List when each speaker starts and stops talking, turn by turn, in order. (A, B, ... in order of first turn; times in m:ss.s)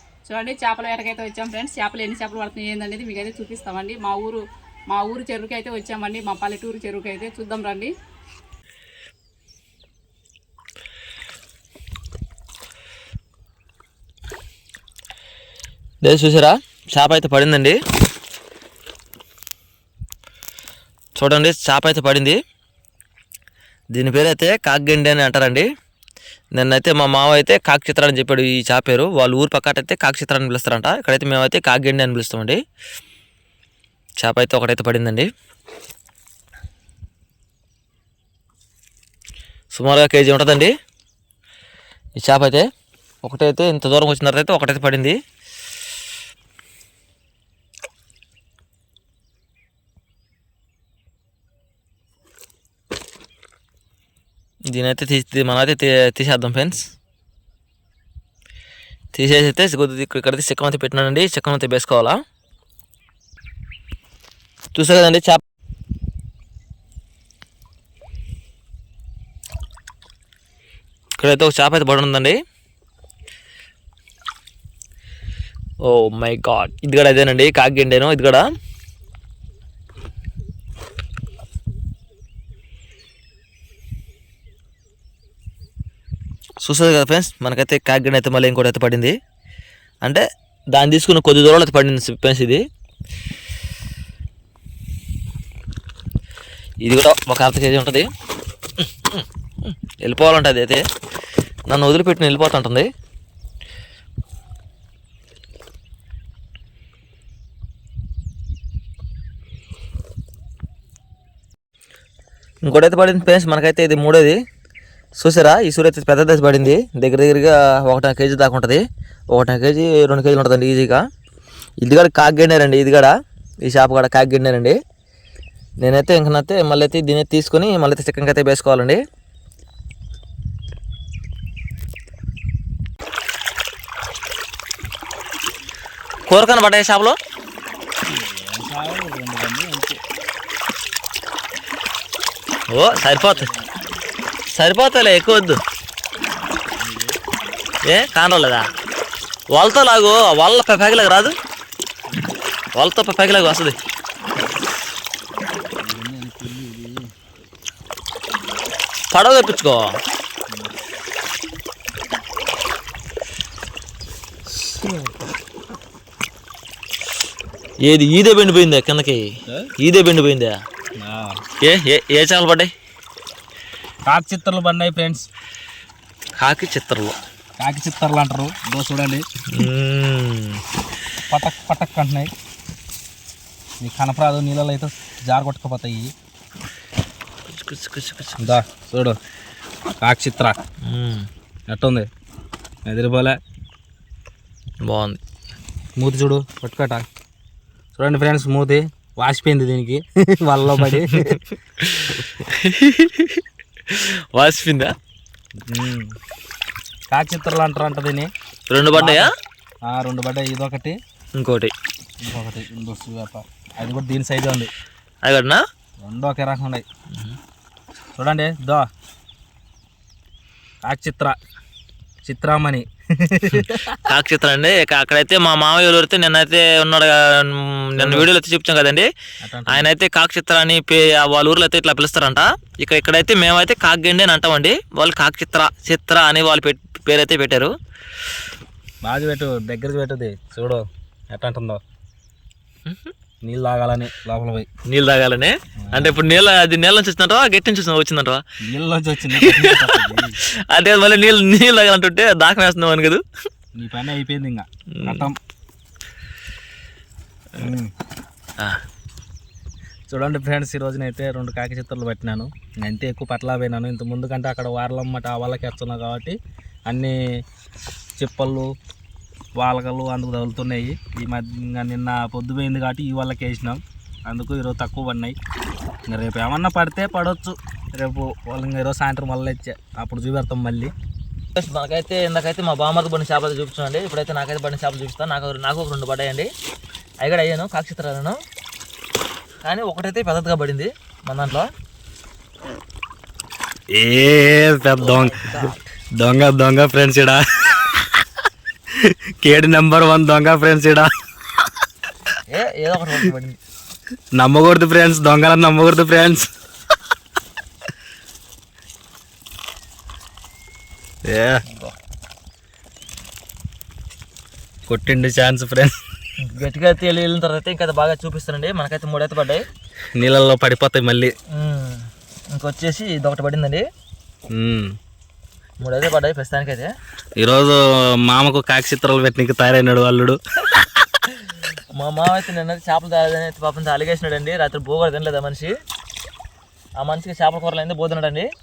0:00.3-0:07.9 A
0:16.0-0:17.8 B
0:21.2-0:22.4 B
0:23.9-0:25.7 B
0:26.5-0:32.6 B
0:34.2-0:35.3 B
0:39.7-0:40.7 B
0:42.2-0:42.7 B
0:43.2-0:45.2 B
0:54.7-0:56.9 B
0:59.1-1:02.2 B
1:04.7-1:05.4 B
1:11.2-1:12.4 B
1:15.8-1:18.4 B
1:26.6-1:29.2 B
1:30.0-1:32.6 B
1:36.8-1:38.1 B
1:39.1-1:40.8 B
1:41.7-1:42.9 B
1:52.6-1:54.4 B
1:55.2-2:01.0 B
2:01.8-2:03.1 B
2:03.6-2:04.8 B
2:05.8-2:09.0 B
2:16.3-2:17.2 B
2:18.0-2:20.0 C
2:22.7-2:23.5 B
2:22.9-2:23.7 C
2:24.5-2:25.6 B
2:26.8-2:27.2 C
2:27.9-2:28.7 B
2:29.5-2:31.3 B
2:32.8-2:33.8 B
2:35.8-2:37.0 C
2:39.1-2:39.9 B
2:44.7-2:45.1 C
2:47.8-2:49.2 B
2:49.8-2:50.6 B
2:51.0-2:51.4 C
2:51.6-2:52.7 B
2:54.0-2:55.3 C
2:56.4-2:57.2 B
2:57.6-2:59.2 C
2:59.5-3:00.6 B
3:01.3-3:02.3 C
3:03.8-3:06.1 C
3:07.5-3:08.5 B
3:08.4-3:09.2 C
3:10.0-3:10.6 C
3:10.8-3:11.3 B
3:11.7-3:12.1 C
3:12.9-3:13.4 C
3:14.8-3:15.2 B
3:16.0-3:17.0 C
3:18.0-3:21.4 C
3:22.5-3:24.9 B
3:25.7-3:26.2 C
3:27.1-3:28.3 C
3:28.7-3:29.3 B
3:28.9-3:29.2 C
3:29.8-3:31.0 C
3:31.4-3:31.7 B
3:32.2-3:34.7 C
3:35.2-3:35.6 B
3:36.0-3:36.8 C
3:37.1-3:37.4 B
3:38.2-3:38.9 C
3:40.8-3:41.4 C
3:42.2-3:44.0 C
3:44.0-3:49.1 B
3:48.0-3:48.3 C
3:49.4-3:49.9 C
3:49.7-3:57.7 B
3:59.0-4:01.8 C
4:03.4-4:04.7 C
4:04.9-4:08.4 B
4:05.9-4:06.2 C
4:08.6-4:10.4 C
4:09.4-4:10.0 B
4:10.7-4:13.2 B
4:13.8-4:15.4 C
4:15.0-4:15.3 B
4:17.6-4:17.9 C
4:20.1-4:27.2 C
4:28.2-4:28.7 C
4:29.6-4:35.4 C
4:36.1-4:40.9 C
4:41.6-4:46.5 B
4:47.2-4:48.4 B
4:49.6-4:51.7 B
4:53.9-4:58.2 C
4:55.0-4:55.7 B
4:59.0-5:01.1 C
5:02.5-5:03.6 B
5:04.3-5:06.5 C
5:11.2-5:11.6 C
5:11.7-5:12.0 B
5:14.9-5:16.0 C
5:16.4-5:19.6 B
5:20.2-5:21.3 C
5:21.5-5:23.8 B
5:24.5-5:25.0 C
5:25.8-5:26.9 B
5:27.4-5:30.4 C
5:31.9-5:35.7 B
5:37.0-5:38.5 B